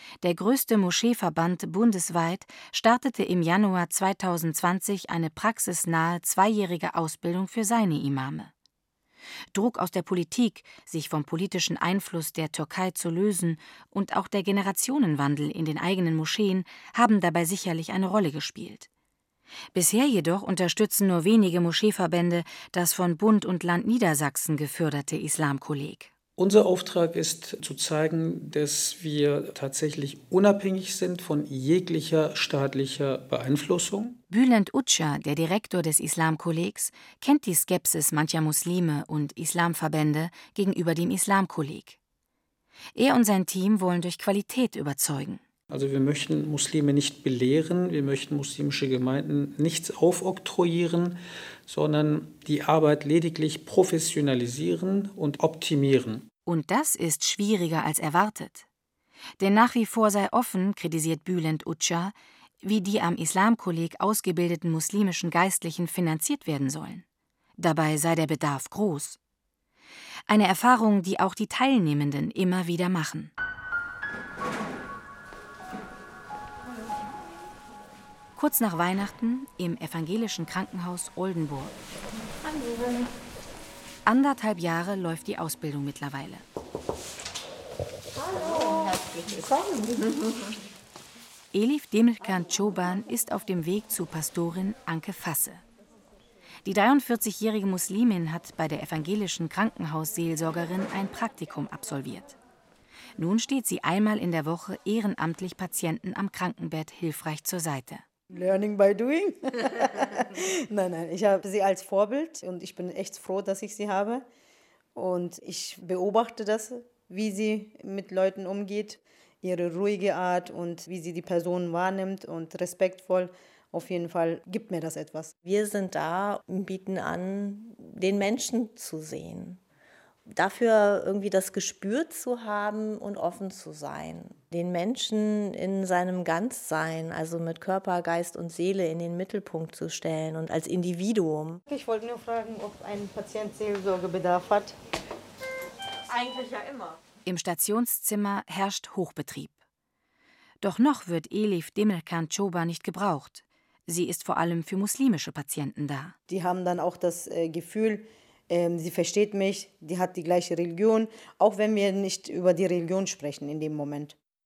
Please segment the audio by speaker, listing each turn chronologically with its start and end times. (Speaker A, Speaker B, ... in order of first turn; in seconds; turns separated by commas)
Speaker A: 0.2-8.5, Speaker A: 9.5-18.9, Speaker A: 19.7-26.1, Speaker B: 26.4-34.2, Speaker A: 34.3-42.0, Speaker A: 43.0-45.4, Speaker B: 45.7-56.2, Speaker A: 56.5-58.6, Speaker A: 59.4-67.0, Speaker A: 67.6-69.2, Speaker A: 70.3-73.3, Speaker A: 78.3-81.7, Speaker A: 84.0-86.4, Speaker C: 88.3-89.2, Speaker A: 91.5-95.6, Speaker A: 96.6-102.4, Speaker A: 103.2-108.0, Speaker D: 108.3-114.2, Speaker D: 114.9-125.3, Speaker C: 125.4-129.6, Speaker C: 130.3-141.6, Speaker D: 141.7-144.8, Speaker A: 147.2-149.5, Speaker A: 150.6-156.1, Speaker D: 156.3-164.2